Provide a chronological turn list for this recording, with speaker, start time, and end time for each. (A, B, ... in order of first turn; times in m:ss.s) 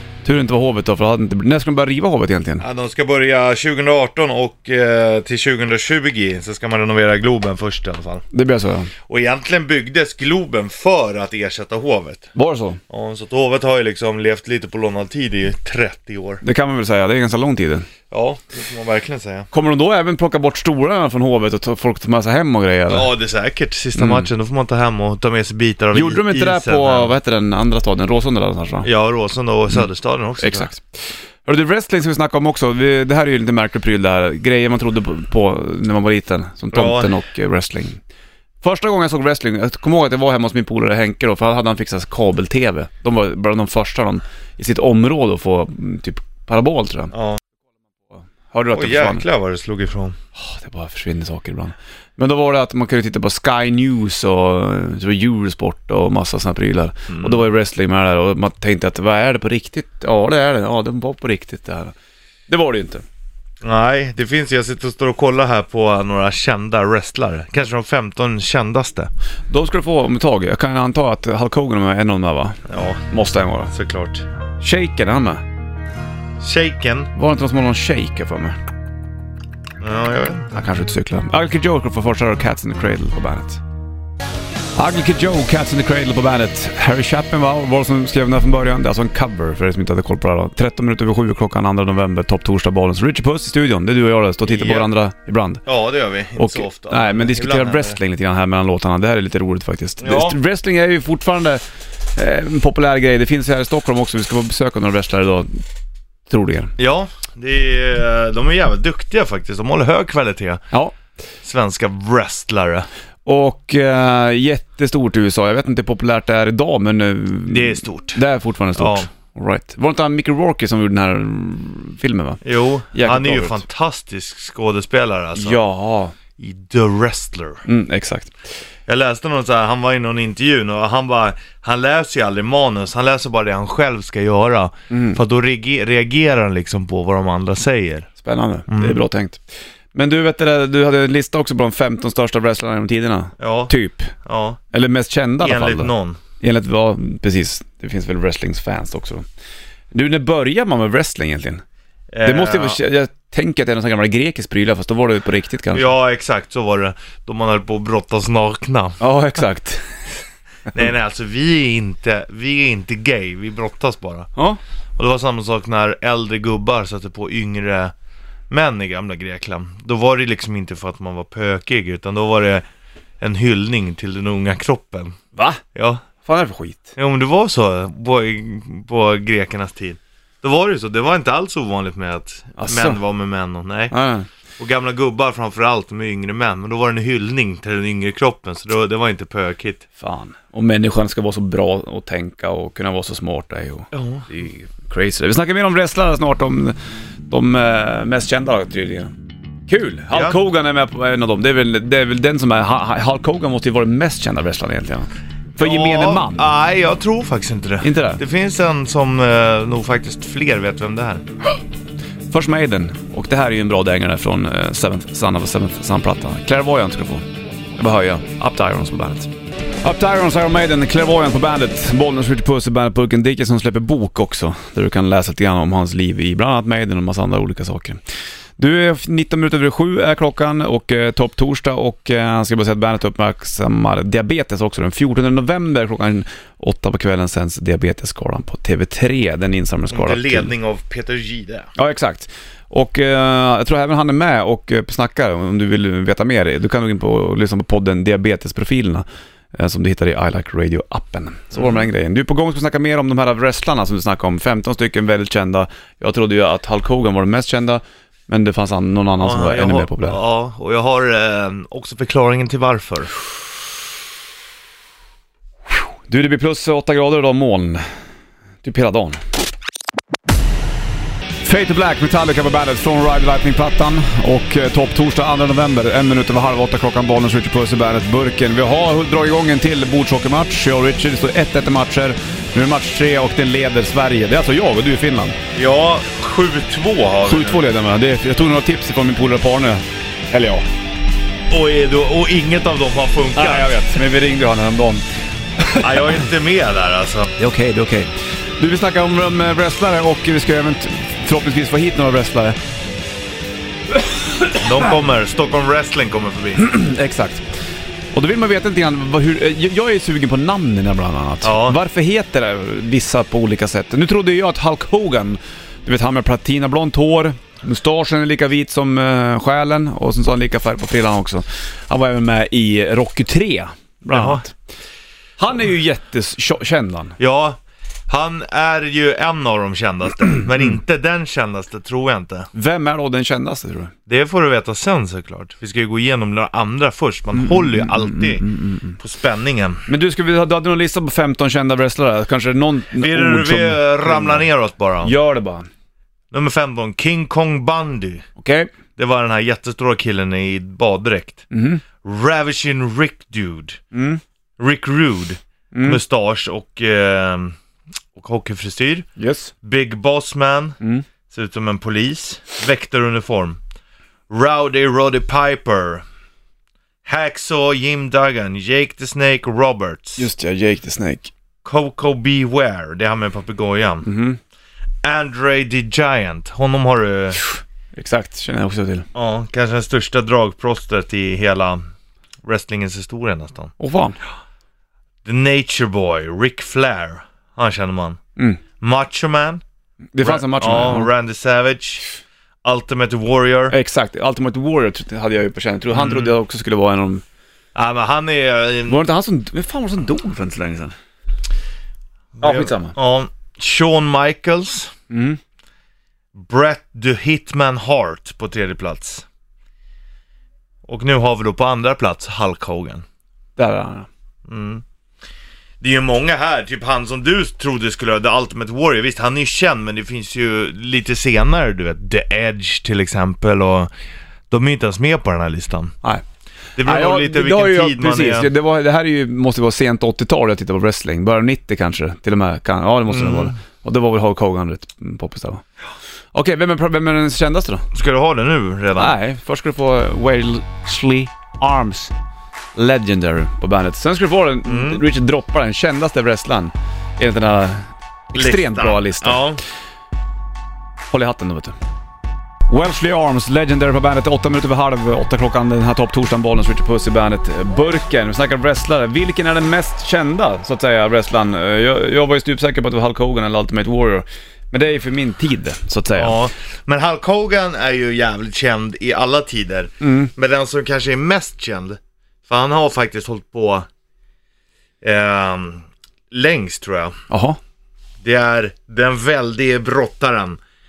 0:00.2-0:02.6 A
0:02.6-0:08.2 B
0:08.3-0:08.9 A
0:09.1-0:12.3 B
0:12.4-0:12.8 A
0:12.9-0:16.4 B
0:16.4-0:17.9 A
0:18.1-0:19.5 B
0:19.5-0:23.1 A
0:22.9-0:27.1 B
0:25.9-0:28.9 A
0:28.8-0:30.7 B
0:30.4-0:38.0 A
0:36.7-0:37.1 B
0:38.6-0:47.1 A
0:47.1-0:47.4 B
0:48.2-0:49.2 A
0:48.8-0:50.2 B
0:50.4-1:02.0 A
0:57.1-0:57.4 B
1:02.5-1:03.0 A
1:03.6-1:09.1 B
1:09.5-1:13.7 A
1:12.7-1:13.0 B
1:13.7-1:14.2 B
1:14.6-1:15.4 A
1:16.4-1:17.1 B
1:17.2-1:18.6 A
1:19.8-1:20.5 B
1:20.5-1:23.6 A
1:24.8-1:35.6 A
1:34.4-1:34.9 B
1:35.7-1:38.0 B
1:36.4-1:41.6 A
1:40.0-1:40.4 B
1:42.2-1:45.6 A
1:46.3-1:46.7 A
1:46.8-1:50.6 B
1:51.4-1:52.9 B
1:53.3-2:02.4 A
1:57.5-1:58.2 B
1:58.8-1:59.1 B
2:02.4-2:05.6 B
2:02.9-2:03.6 A
2:05.4-2:06.1 A
2:06.4-2:07.6 B
2:07.7-2:08.3 A
2:08.9-2:18.1 B
2:14.9-2:15.2 A
2:18.2-2:19.4 A
2:18.7-2:19.0 B
2:19.9-2:24.1 A
2:23.4-2:23.7 B
2:24.2-2:24.6 B
2:24.7-2:29.2 A
2:25.4-2:26.2 B
2:29.9-2:31.6 A
2:32.1-2:32.8 B
2:32.2-2:35.9 A
2:35.7-2:39.0 B
2:39.0-2:39.9 A
2:40.7-2:44.3 B
2:45.0-2:47.9 B
2:48.5-2:52.6 B
2:53.2-2:55.2 B
2:55.4-2:55.6 A
2:55.8-2:56.0 B
2:56.2-2:56.9 A
2:57.0-3:03.9 B
3:02.6-3:03.0 A
3:03.9-3:04.3 A
3:04.6-3:09.9 B
3:10.0-3:16.8 A
3:13.9-3:14.3 B
3:17.3-3:19.1 A
3:19.7-3:26.5 A
3:20.1-3:20.4 B
3:25.6-3:31.2 B
3:27.8-3:28.2 A
3:32.3-3:37.3 A
3:37.8-3:39.3 A
3:39.8-3:48.0 A
3:48.6-4:00.5 A
3:59.9-4:01.7 B
4:01.8-4:20.2 A
4:19.2-4:23.1 B
4:26.1-4:27.8 A
4:28.6-4:29.2 A
4:31.4-4:45.4 A
4:45.5-4:47.6 B
4:47.2-4:50.6 A
4:51.5-4:53.8 B
4:53.4-4:55.0 A
4:55.6-4:56.0 A
4:55.8-4:57.3 B
4:57.4-5:02.6 A
5:04.6-5:06.7 B
5:06.6-5:07.5 A
5:08.1-5:24.5 A
5:11.4-5:11.8 B
5:24.1-5:24.4 B
5:25.4-5:27.2 A
5:27.2-5:32.5 B
5:32.5-5:33.9 A
5:34.1-5:38.4 B
5:37.4-5:39.0 A
5:39.0-5:39.9 B
5:39.9-5:44.5 A
5:43.0-5:45.1 B
5:45.0-5:45.7 A
5:46.3-5:48.3 B
5:48.4-5:48.7 A
5:49.0-5:51.5 B
5:51.5-5:51.8 A
5:52.0-5:53.8 B
5:53.9-5:54.2 A
5:54.6-5:57.6 B
5:55.7-5:56.0 A
5:58.2-5:59.1 B
5:59.2-5:59.5 A
5:59.6-6:00.8 B
6:01.3-6:03.6 B
6:04.3-6:06.0 B
6:07.0-6:10.3 B
6:10.2-6:11.3 A
6:11.6-6:14.1 B
6:14.0-6:14.4 A
6:15.0-6:17.4 B
6:18.0-6:19.1 A
6:19.2-6:21.8 B
6:22.4-6:23.7 B
6:23.8-6:24.2 A
6:25.2-6:28.2 B
6:28.8-6:29.6 B
6:30.1-6:31.1 A
6:30.2-6:32.0 B
6:32.6-6:33.8 B
6:33.7-6:37.2 A
6:35.9-6:36.3 B
6:37.8-6:39.0 B
6:38.9-6:40.9 A
6:42.4-6:44.9 B
6:42.4-6:43.0 A
6:45.1-6:45.4 A
6:46.4-6:49.2 B
6:50.9-6:53.0 B
6:53.6-6:54.1 A
6:54.5-6:54.8 B
6:55.8-7:03.9 B
7:04.5-7:05.9 B
7:06.8-7:08.5 B
7:06.8-7:15.6 A
7:13.1-7:13.5 B
7:16.3-7:17.9 A
7:17.9-7:19.2 B
7:19.0-7:22.1 A
7:22.8-7:29.4 A
7:24.6-7:25.0 B
7:28.3-7:29.6 B
7:31.1-7:31.7 A
7:32.7-7:46.4 A
7:46.2-7:53.9 B
7:50.0-7:50.3 A
7:55.0-7:57.2 B
7:57.3-7:57.6 A
7:58.2-8:00.6 B